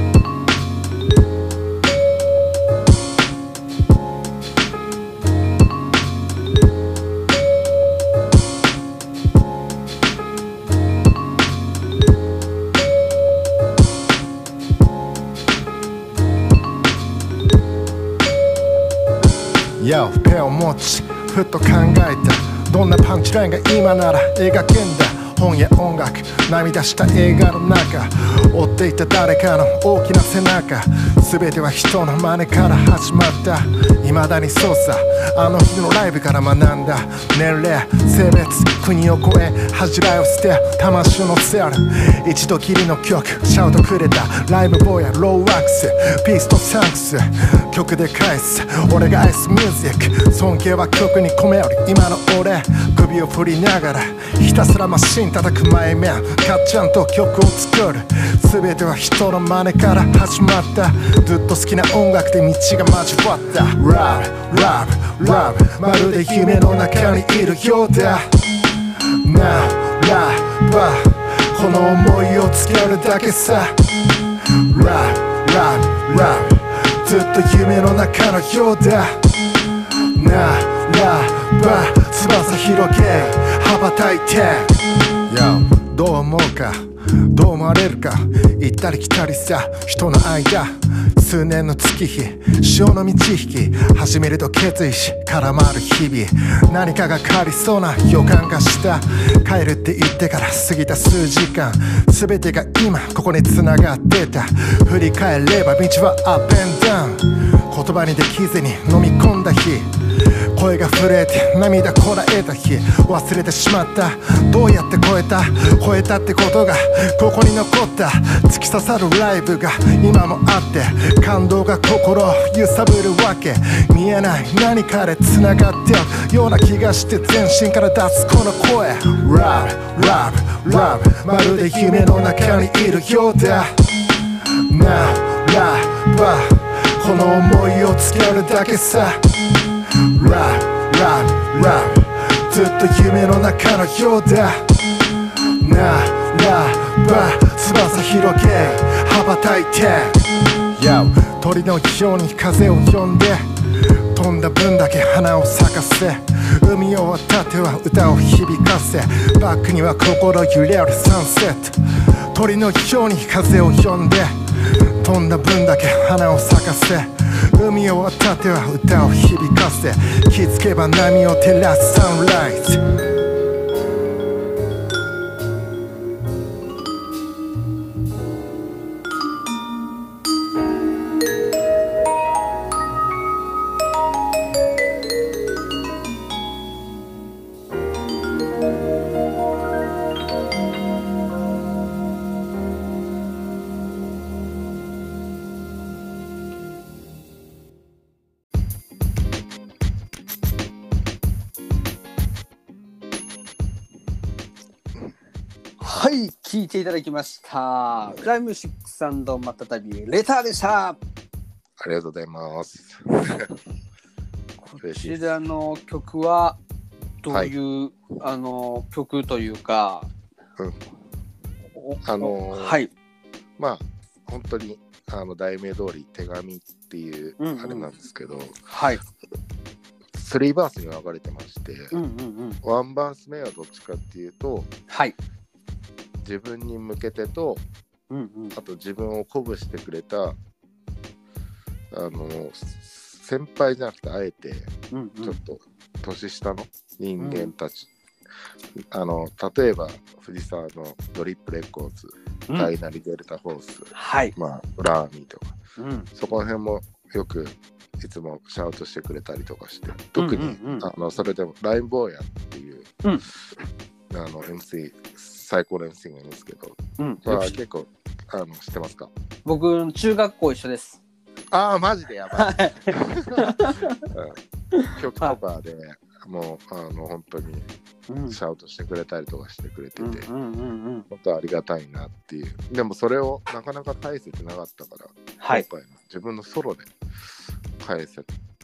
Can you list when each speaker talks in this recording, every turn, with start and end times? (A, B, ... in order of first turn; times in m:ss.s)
0:19.8-2:41.8 A
2:42.3-2:52.8 A
3:25.8-3:31.0 B
3:31.8-3:33.6 C
3:34.6-3:36.6 B
3:34.8-3:35.2 C
3:37.2-3:40.1 B
3:37.3-3:37.5 C
3:41.8-3:42.9 B
3:42.0-3:42.8 C
3:43.6-3:48.6 C
3:47.4-3:47.9 B
3:48.7-3:49.0 B
3:50.1-3:52.0 C
3:51.9-3:52.6 B
3:52.6-3:54.7 C
3:54.9-3:55.1 B
3:56.2-3:57.6 C
3:58.1-3:58.5 B
3:58.5-4:00.4 C
4:01.9-4:04.7 C
4:04.9-4:05.4 B
4:05.2-4:07.9 C
4:07.2-4:07.5 B
4:08.8-4:15.5 C
4:13.9-4:14.3 B
4:15.8-4:16.1 B
4:16.1-4:23.0 C
4:20.2-4:20.9 B
4:24.1-4:29.1 C
4:27.0-4:27.6 B
4:29.4-4:31.0 B
4:31.5-4:34.4 C
4:32.3-4:34.0 B
4:34.7-4:35.4 B
4:34.9-4:37.7 C
4:38.1-4:38.4 B
4:38.3-4:40.3 C
4:40.0-4:41.1 B
4:41.1-4:46.9 C
4:45.4-4:45.6 B
4:47.8-4:48.3 C